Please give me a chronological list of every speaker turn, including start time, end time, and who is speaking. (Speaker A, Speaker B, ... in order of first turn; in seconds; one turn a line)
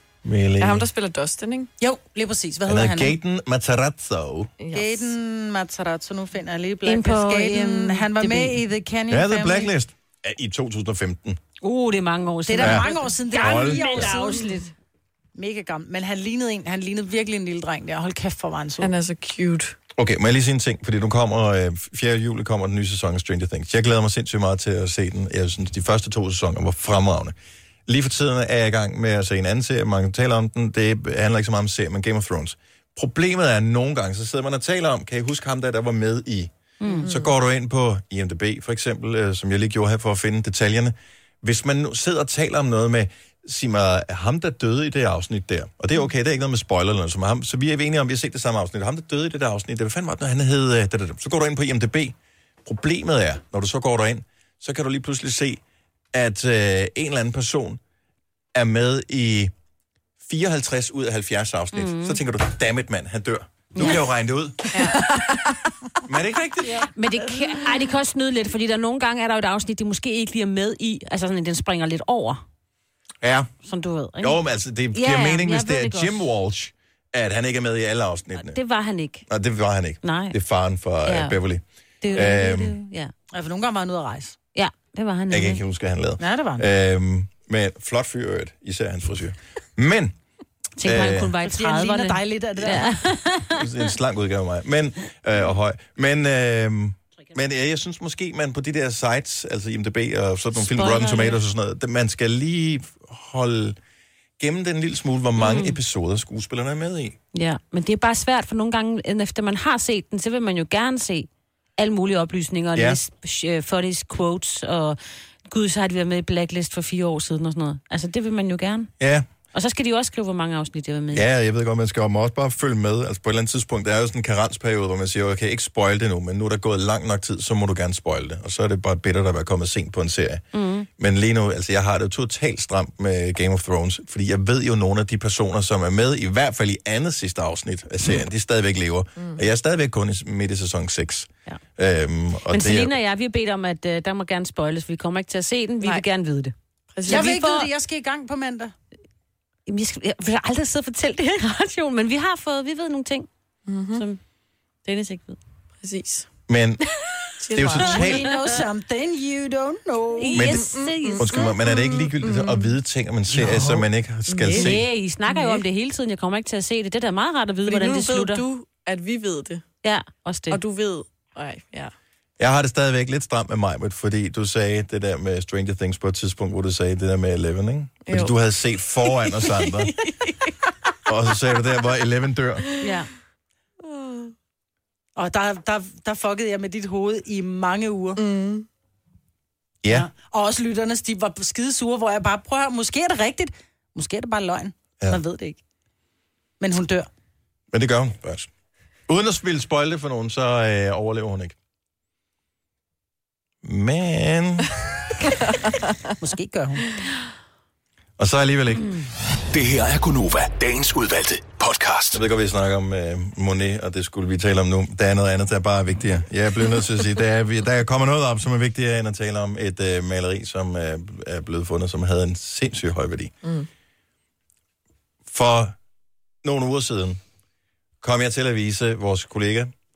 Speaker A: 0.2-0.9
Speaker B: 0.6-1.7
Speaker C: 1.8-3.1
Speaker A: 2.7-4.5
Speaker B: 4.6-5.1
Speaker C: 4.7-9.7
Speaker D: 6.8-8.6
Speaker A: 9.1-11.4
Speaker D: 11.6-14.7
Speaker C: 12.4-14.4
Speaker A: 12.6-14.1
Speaker C: 15.3-18.9
Speaker B: 18.8-19.7
Speaker A: 19.9-27.3
Speaker A: 27.9-55.6
Speaker D: 36.8-37.1
Speaker B: 36.9-37.3
Speaker A: 56.1-57.8
Speaker A: 58.5-59.5
Speaker A: 60.2-64.8
Speaker D: 61.7-62.2
Speaker A: 66.0-66.9
Speaker D: 66.9-72.4
Speaker A: 73.2-73.5
Speaker D: 73.7-74.4
Speaker A: 74.2-78.6
Speaker D: 74.9-76.2
Speaker D: 78.3-79.2
Speaker A: 79.3-82.8
Speaker D: 80.0-80.3
Speaker D: 81.0-81.3
Speaker D: 82.0-83.1
Speaker C: 83.3-84.3
Speaker D: 84.5-85.6
Speaker A: 85.3-90.2
Speaker C: 86.2-86.6
Speaker D: 90.8-93.7
Speaker A: 90.8-91.3
Speaker C: 91.4-93.0
Speaker A: 93.5-103.8
Speaker D: 100.6-101.4
Speaker A: 104.4-107.2
Speaker D: 105.4-105.8
Speaker D: 107.3-118.9
Speaker A: 112.7-113.0
Speaker A: 119.0-119.3
Speaker D: 119.5-121.3
Speaker A: 121.1-130.4
Speaker D: 130.5-130.9
Speaker A: 130.9-142.9
Speaker D: 142.5-147.7
Speaker B: 145.8-146.1
Speaker B: 146.9-147.3
Speaker C: 147.1-148.7
Speaker D: 149.7-153.3
Speaker B: 153.7-154.0
Speaker D: 153.9-154.2
Speaker D: 154.8-155.4
Speaker B: 155.8-156.3
Speaker A: 156.5-156.8
Speaker B: 157.4-158.1
Speaker A: 157.5-158.3
Speaker C: 157.7-160.4
Speaker D: 160.2-161.5
Speaker A: 160.3-164.9
Speaker B: 160.4-162.8
Speaker B: 164.3-165.6
Speaker D: 164.5-168.4
Speaker B: 167.6-169.6
Speaker D: 169.8-170.6
Speaker B: 170.5-171.9
Speaker A: 172.4-179.9
Speaker B: 178.1-178.4
Speaker B: 179.0-180.5
Speaker A: 181.1-182.6
Speaker B: 182.7-182.9
Speaker D: 182.8-183.1
Speaker B: 183.8-184.3
Speaker C: 185.2-188.2
Speaker B: 188.2-188.7
Speaker A: 189.8-190.1
Speaker C: 189.9-195.6
Speaker C: 196.6-197.1
Speaker A: 197.7-198.5
Speaker A: 199.1-201.6
Speaker A: 203.6-204.7
Speaker C: 206.2-206.9
Speaker A: 208.2-209.0
Speaker E: 209.5-212.2
Speaker A: 212.1-223.3
Speaker A: 225.3-225.8
Speaker A: 226.4-227.2
Speaker A: 228.0-229.7